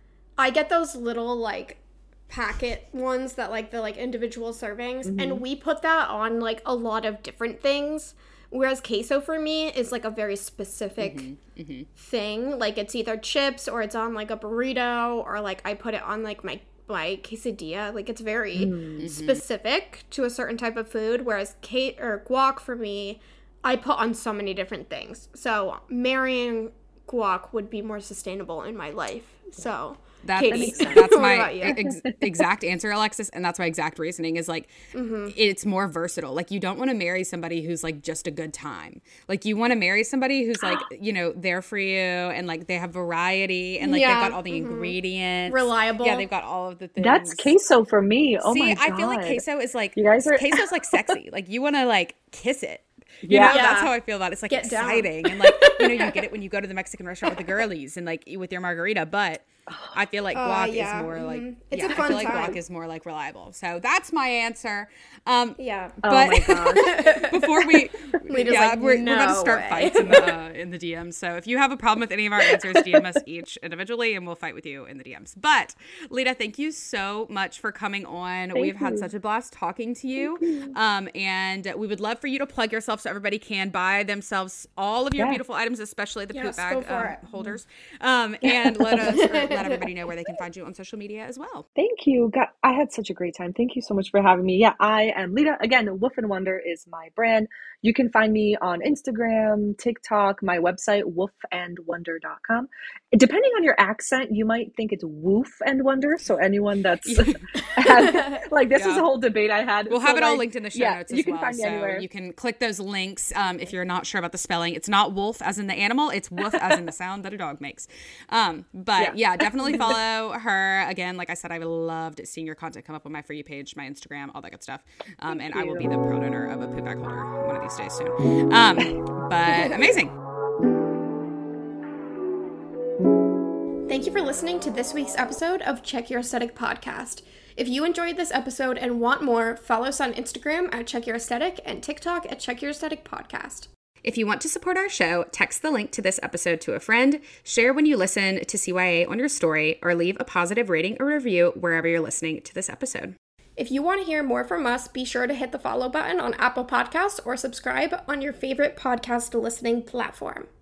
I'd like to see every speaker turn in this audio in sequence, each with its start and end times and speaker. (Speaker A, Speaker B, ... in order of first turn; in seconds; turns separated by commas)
Speaker A: 0.4-11.3, Speaker B: 5.0-5.4, Speaker C: 11.0-11.9, Speaker A: 11.9-31.8, Speaker B: 18.5-19.1, Speaker C: 19.0-19.4, Speaker C: 30.2-47.5, Speaker B: 30.5-31.1, Speaker B: 31.7-32.2, Speaker A: 34.9-35.3, Speaker A: 43.8-45.0, Speaker A: 45.5-46.2, Speaker B: 47.0-49.4, Speaker C: 48.4-91.7, Speaker B: 49.9-51.1, Speaker B: 53.2-53.6, Speaker A: 53.3-53.9, Speaker A: 54.5-56.2, Speaker B: 59.7-60.0, Speaker A: 60.3-62.6, Speaker A: 65.6-66.0, Speaker B: 66.0-67.0, Speaker A: 66.7-70.3, Speaker B: 78.5-79.1, Speaker B: 80.4-80.7, Speaker A: 86.3-87.2, Speaker B: 88.4-89.3, Speaker A: 89.1-89.8, Speaker B: 91.8-112.0, Speaker C: 107.0-108.0, Speaker A: 107.9-108.4, Speaker C: 108.7-109.0, Speaker C: 109.9-130.1, Speaker B: 119.0-120.0, Speaker B: 125.3-125.9, Speaker B: 129.5-129.9, Speaker A: 133.9-143.7, Speaker C: 144.0-153.2, Speaker A: 153.6-160.5